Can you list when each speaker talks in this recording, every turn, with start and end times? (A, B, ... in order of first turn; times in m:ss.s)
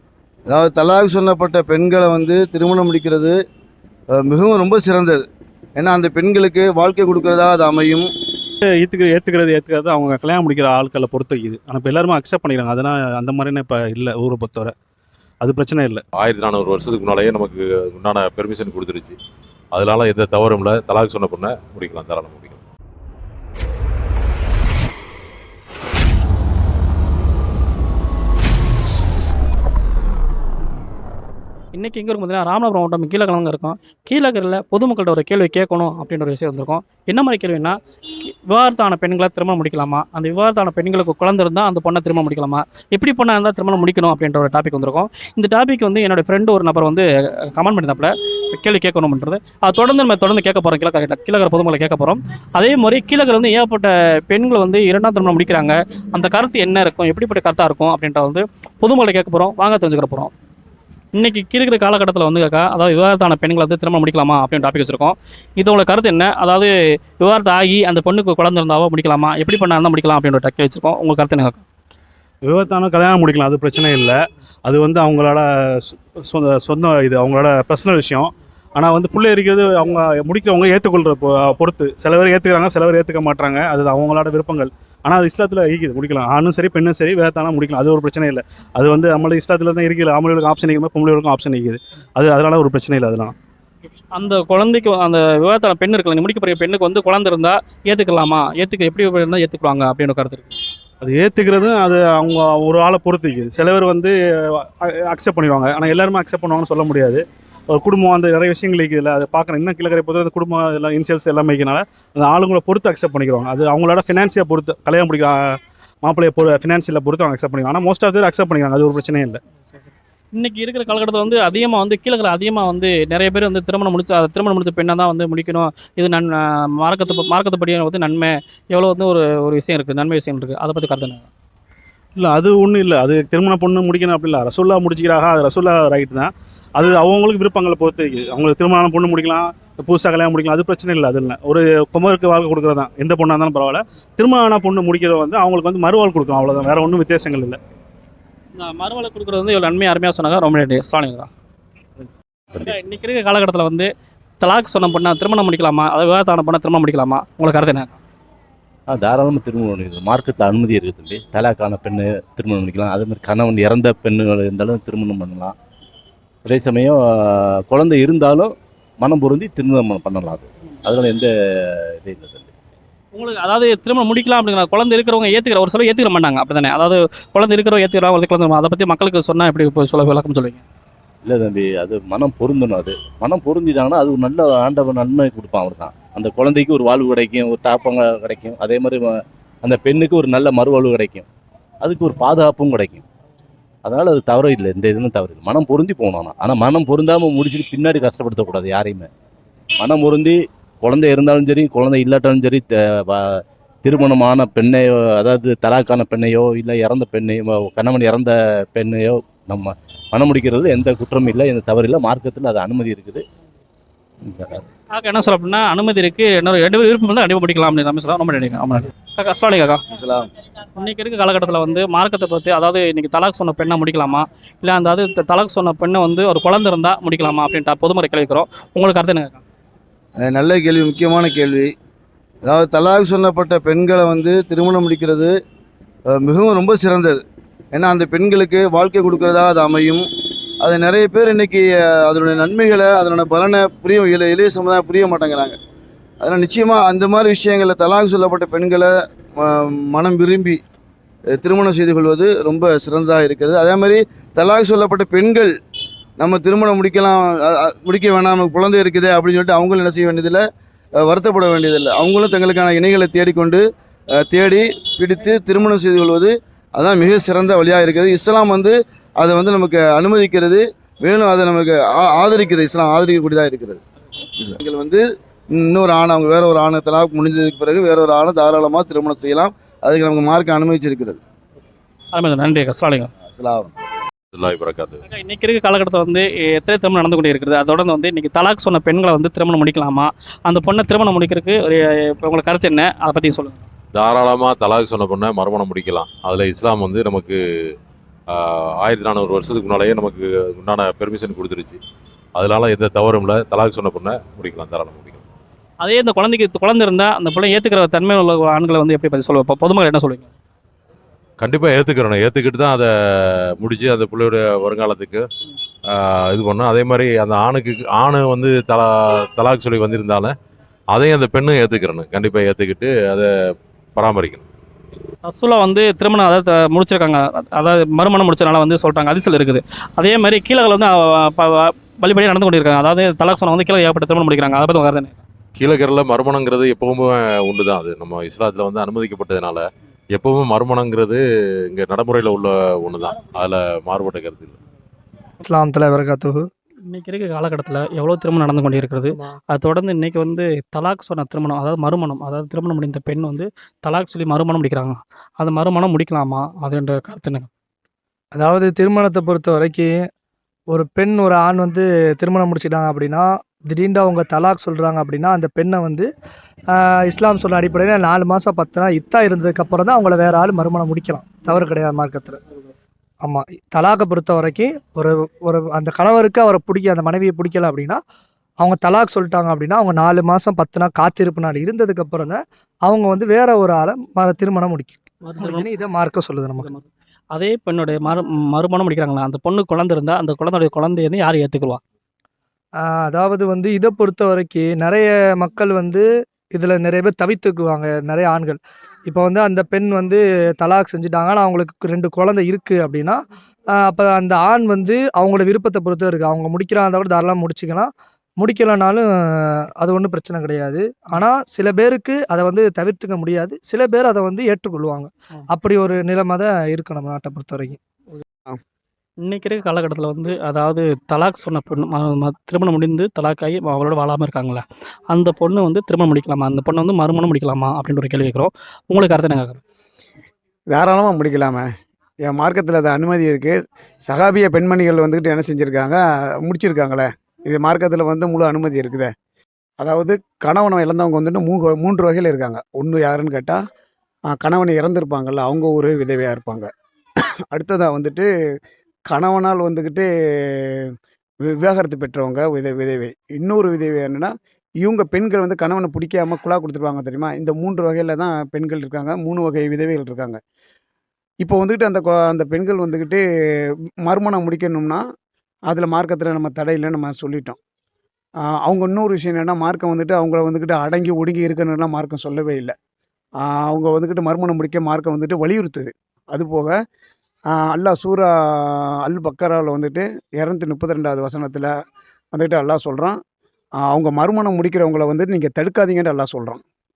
0:00.5-0:03.3 A
0:04.1-0:05.2 A
0:05.8-0:08.1 A
0:08.6-0:14.7 B
0:15.4-0:16.0 B
0:16.2-0:19.2 C
0:19.7-0:22.6 C
0:31.8-1:00.3 D
1:01.2-1:11.6 D
1:12.4-1:33.3 B
1:34.1-1:40.5 D
1:41.0-1:59.4 B
2:00.4-2:11.3 D
2:12.2-2:27.6 B
2:28.6-2:31.3 D
2:32.5-2:33.9 D
2:34.4-2:38.0 D
2:38.9-2:45.5 E
2:46.5-2:51.3 E
2:52.0-2:52.5 E
2:53.2-3:00.6 D
3:01.2-3:09.1 E
3:09.6-3:11.3 E
3:11.8-3:13.0 E
3:13.8-3:19.1 E
3:19.8-3:33.2 E
3:34.3-3:34.6 E
3:34.9-3:39.8 D
3:39.9-3:40.3 A
3:40.8-3:49.4 D
3:50.2-3:51.7 A
3:52.4-3:55.3 A
3:56.2-3:57.2 A
3:57.7-4:00.0 A
4:00.6-4:05.6 A
4:06.2-4:10.6 A
4:11.3-4:15.5 A
4:16.2-4:20.4 A
4:21.0-4:23.6 A
4:24.2-4:33.8 A
4:34.4-4:41.2 A
4:42.1-4:43.1 D
4:43.2-4:43.7 A
4:44.3-4:45.0 C
4:45.1-4:53.6 D
4:53.9-4:57.4 C
4:58.3-5:01.8 C
5:02.4-5:05.2 C
5:05.8-5:10.3 D
5:11.4-5:15.2 C
5:15.9-5:20.3 C
5:20.9-5:23.3 C
5:24.0-5:24.4 C
5:25.2-5:35.2 D
5:35.6-5:44.6 C
5:45.4-5:46.4 F
5:46.9-5:57.5 D
5:58.4-6:00.0 F
6:00.7-6:06.1 F
6:06.7-6:12.4 F
6:13.2-6:18.0 F
6:18.6-6:26.7 F
6:25.2-6:25.7 D
6:26.6-6:31.8 D
6:32.8-6:43.2 F
6:43.7-6:57.8 F
6:59.2-7:09.6 D
7:10.7-7:11.6 G
7:12.2-7:13.6 G
7:14.1-7:19.1 G
7:19.8-7:23.6 G
7:24.3-7:26.7 G
7:27.5-7:28.3 G
7:29.1-7:30.9 G
7:31.5-7:34.3 G
7:34.8-7:40.4 G
7:41.4-7:43.2 G
7:44.0-7:45.0 G
7:45.7-7:47.6 G
7:48.5-7:52.7 G
7:53.4-7:56.8 G
7:57.5-8:01.7 G
8:02.3-8:03.2 G
8:03.8-8:06.6 G